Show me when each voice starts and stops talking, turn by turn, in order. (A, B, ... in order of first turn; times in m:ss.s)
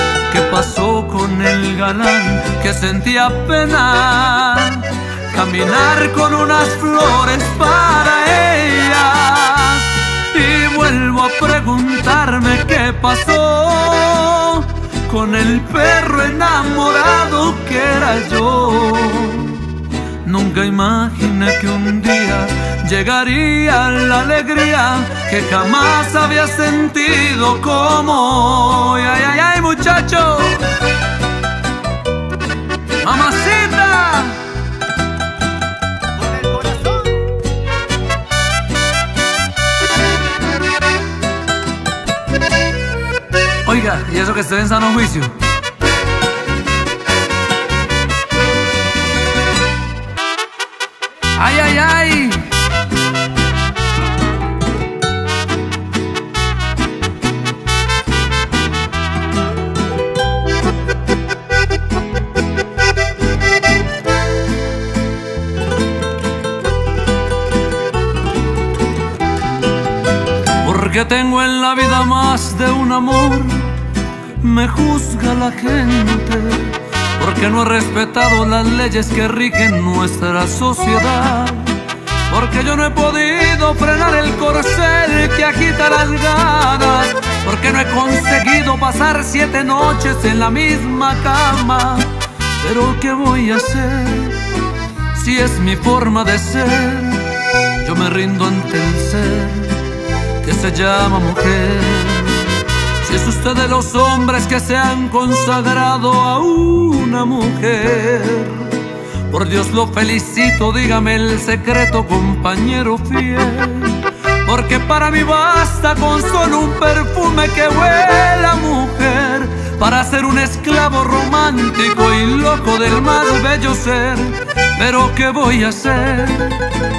0:00.3-0:30.7 A
0:33.0-0:34.5 A
0:43.6-0:45.4 A
0:51.4-0:52.6 A
1:10.6-1:13.8 A
1:14.4-1:34.5 A
1:35.1-1:39.9 A
1:40.4-2:06.7 A